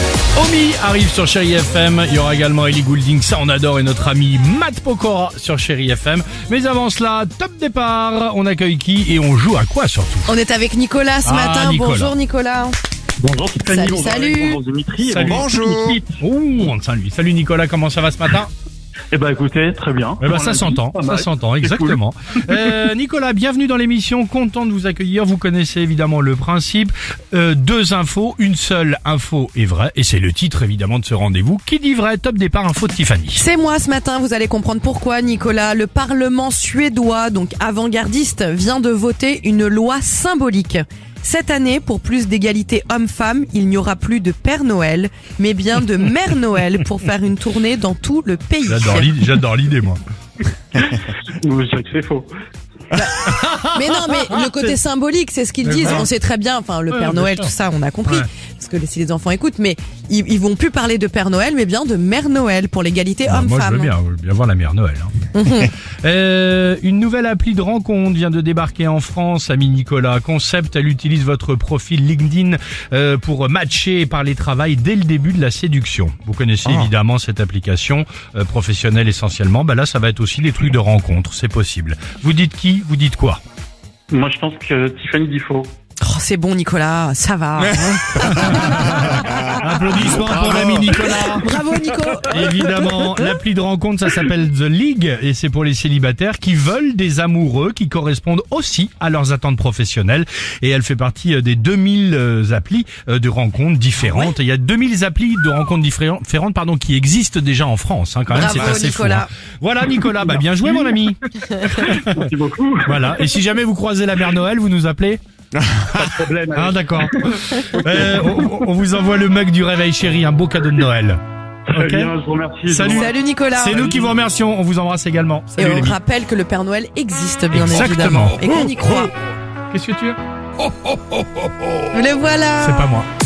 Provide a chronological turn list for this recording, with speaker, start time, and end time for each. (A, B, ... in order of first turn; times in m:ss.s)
0:00.3-0:10.3 A
0:10.3-0:12.8 B
0:11.2-0:12.1 A
0:13.2-0:16.0 C
0:13.7-0:14.6 B
0:15.1-0:15.5 A
0:16.2-0:18.5 A
0:19.1-0:21.9 C
0:20.2-0:33.4 A
0:33.4-0:49.2 B
0:48.6-0:50.0 A
0:51.4-0:52.3 C
0:52.9-1:03.9 B
0:53.2-0:54.4 A
0:55.6-0:56.1 A
0:56.9-0:57.5 A
1:03.3-1:05.3 A
1:05.3-1:05.7 B
1:06.0-1:23.4 A
1:24.1-1:25.7 C
1:26.0-1:29.6 B
1:28.1-1:31.5 A
1:30.9-1:32.8 B
1:32.2-1:52.3 A
1:44.0-1:44.3 B
1:48.3-1:49.3 B
1:51.5-1:51.8 B
1:52.0-1:52.9 C
1:52.9-1:55.2 A
1:55.9-2:01.2 A
1:56.1-1:57.3 C
1:57.8-1:58.3 C
2:01.7-2:03.1 C
2:01.7-2:02.1 A
2:02.7-2:06.0 A
2:02.9-2:03.8 B
2:05.6-2:09.1 B
2:07.5-2:09.1 A
2:09.7-2:10.2 A
2:11.9-2:12.8 B
2:12.6-2:13.0 A